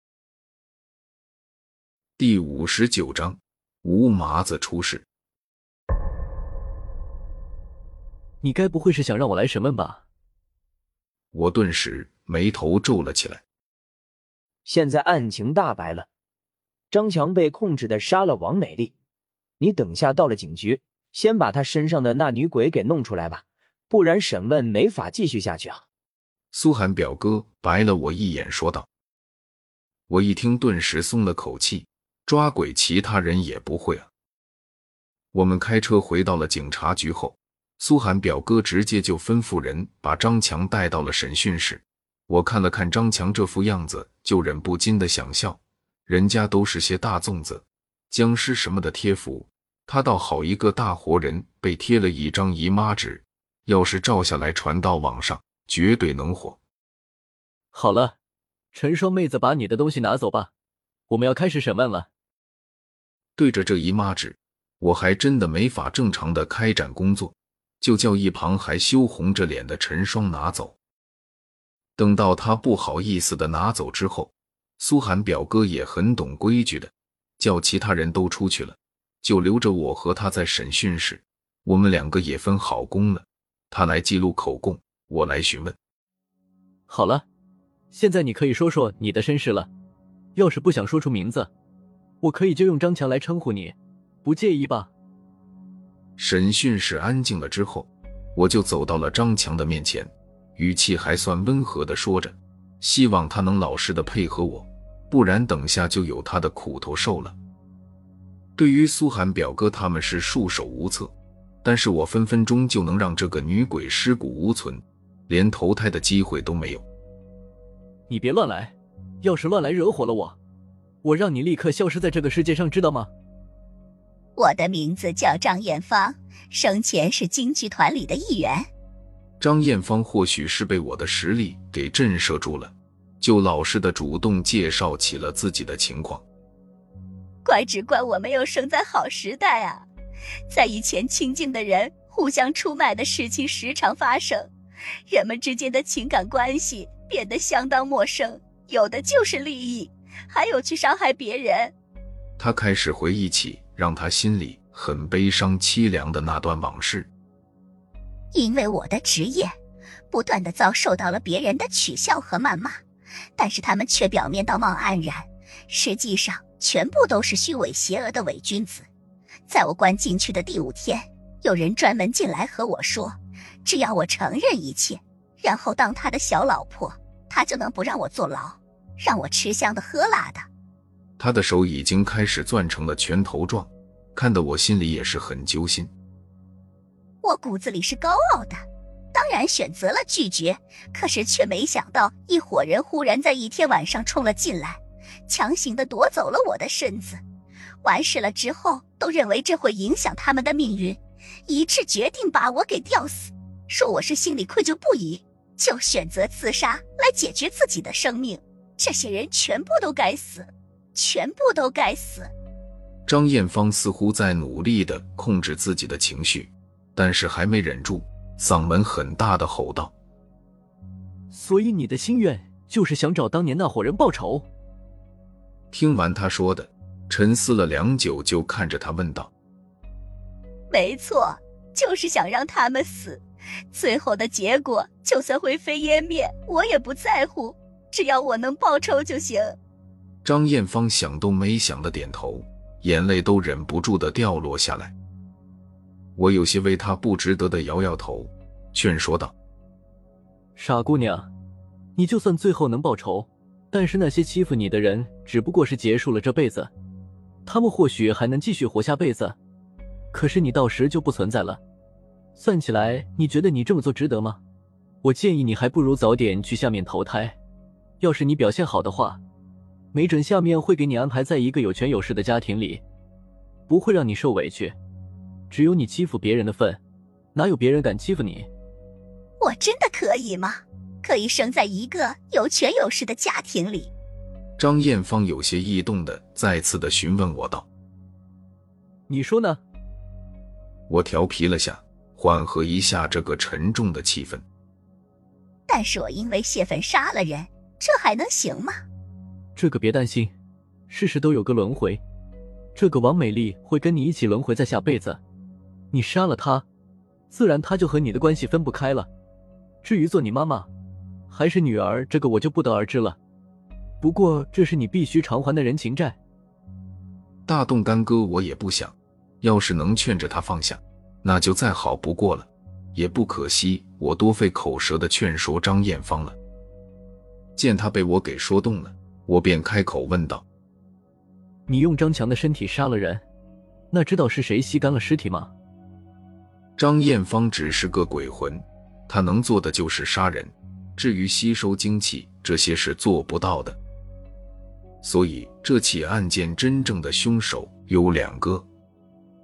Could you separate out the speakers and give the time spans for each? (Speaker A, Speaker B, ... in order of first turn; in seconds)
Speaker A: 2.2-5.0, 11.3-13.4, 26.5-28.9, 30.1-34.1, 35.3-56.6, 63.4-70.8, 72.0-85.8, 96.2-107.3, 108.5-111.1, 111.6-116.8, 129.4-136.2, 152.4-157.1, 181.2-185.9, 213.1-219.9, 225.7-229.3, 240.2-244.9, 246.2-249.3, 284.6-287.7, 290.9-294.4, 317.5-326.4, 327.6-330.4, 336.8-343.8, 345.0-348.6
Speaker B: 8.4-10.0, 57.7-58.1, 58.7-60.5, 61.1-62.1, 86.9-87.2, 87.9-89.7, 90.3-91.5, 92.2-94.9, 118.1-120.4, 121.0-123.1, 221.3-224.4, 250.6-251.3, 251.9-256.7, 257.4-259.4, 260.1-261.6, 262.4-264.4, 265.0-267.4, 268.0-269.2, 269.9-272.8, 273.7-274.8, 275.5-276.8, 277.3-278.5, 289.1-289.6, 299.6-300.3, 300.9-302.0, 302.8-305.2, 305.9-306.6, 307.3-309.1, 309.8-310.7, 311.3-313.2, 314.0-316.2, 331.7-333.2, 333.9-335.5
Speaker C: 14.6-16.1, 16.9-18.9, 19.6-25.8
Speaker D: 124.3-128.7, 137.4-139.9, 140.5-144.5, 145.1-151.7, 158.3-159.5, 160.1-162.8, 163.4-168.9, 169.5-180.4, 187.2-188.6, 189.1-197.2, 197.8-212.3, 230.7-239.6, 279.4-283.9, 295.7-298.8